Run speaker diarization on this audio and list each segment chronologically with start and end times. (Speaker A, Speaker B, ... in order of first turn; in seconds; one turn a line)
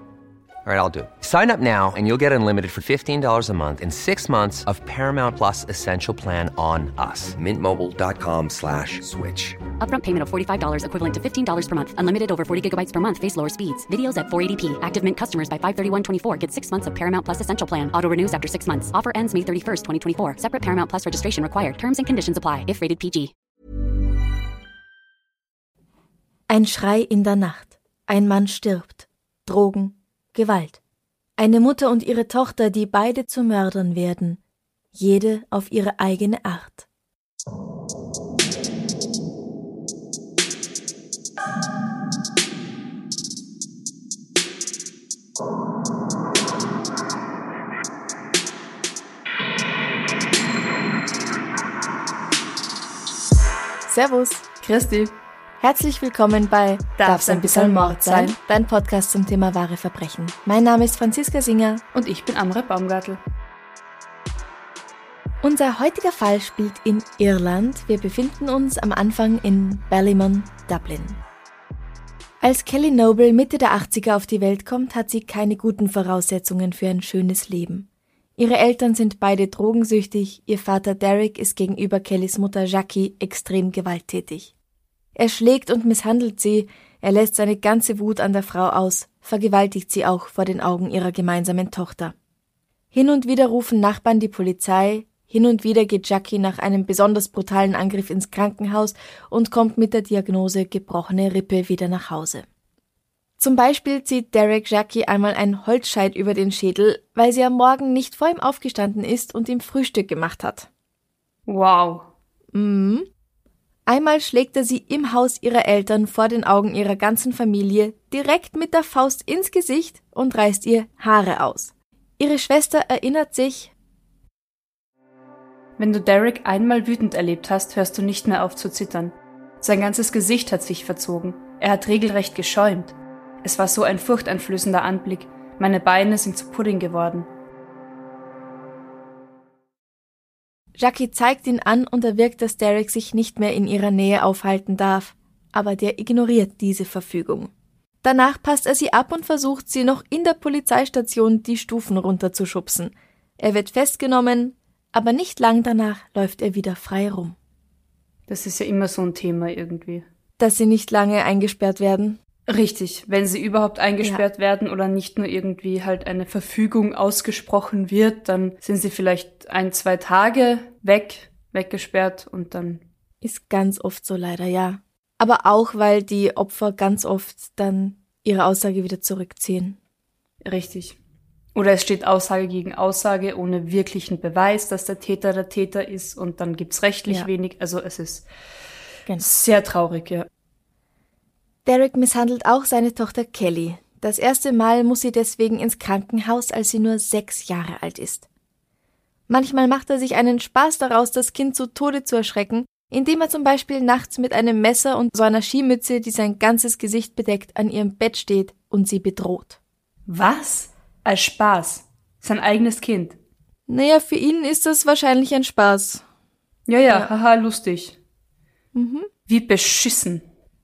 Speaker A: 0.6-9.6
Speaker B: 9.8-23.3
Speaker C: 26.5-30.8
Speaker C: 31.4-34.4
Speaker C: 34.9-36.9
Speaker C: 53.9-54.5
Speaker D: 54.6-55.1
Speaker C: 55.6-61.8
Speaker D: 57.0-58.4
Speaker D: 61.9-63.2
Speaker C: 65.4-71.2
Speaker C: 72.4-84.5
Speaker C: 85.2-92.1
Speaker C: 92.9-102.4
Speaker C: 103.4-110.7
Speaker D: 111.5-112.1
Speaker C: 112.5-113.1
Speaker C: 113.9-123.7
Speaker D: 125.8-137.3
Speaker C: 140.8-147.5
Speaker C: 148.0-157.3
Speaker D: 158.3-160.0
Speaker C: 160.4-162.2
Speaker D: 162.5-172.8
Speaker C: 173.2-179.8
Speaker D: 180.4-181.0
Speaker D: 181.5-188.2
Speaker D: 189.2-190.3
Speaker C: 191.7-198.3
Speaker C: 199.3-209.6
Speaker D: 210.1-213.2
Speaker C: 213.7-216.0
Speaker D: 216.7-218.0
Speaker C: 218.7-219.1
Speaker D: 219.3-220.2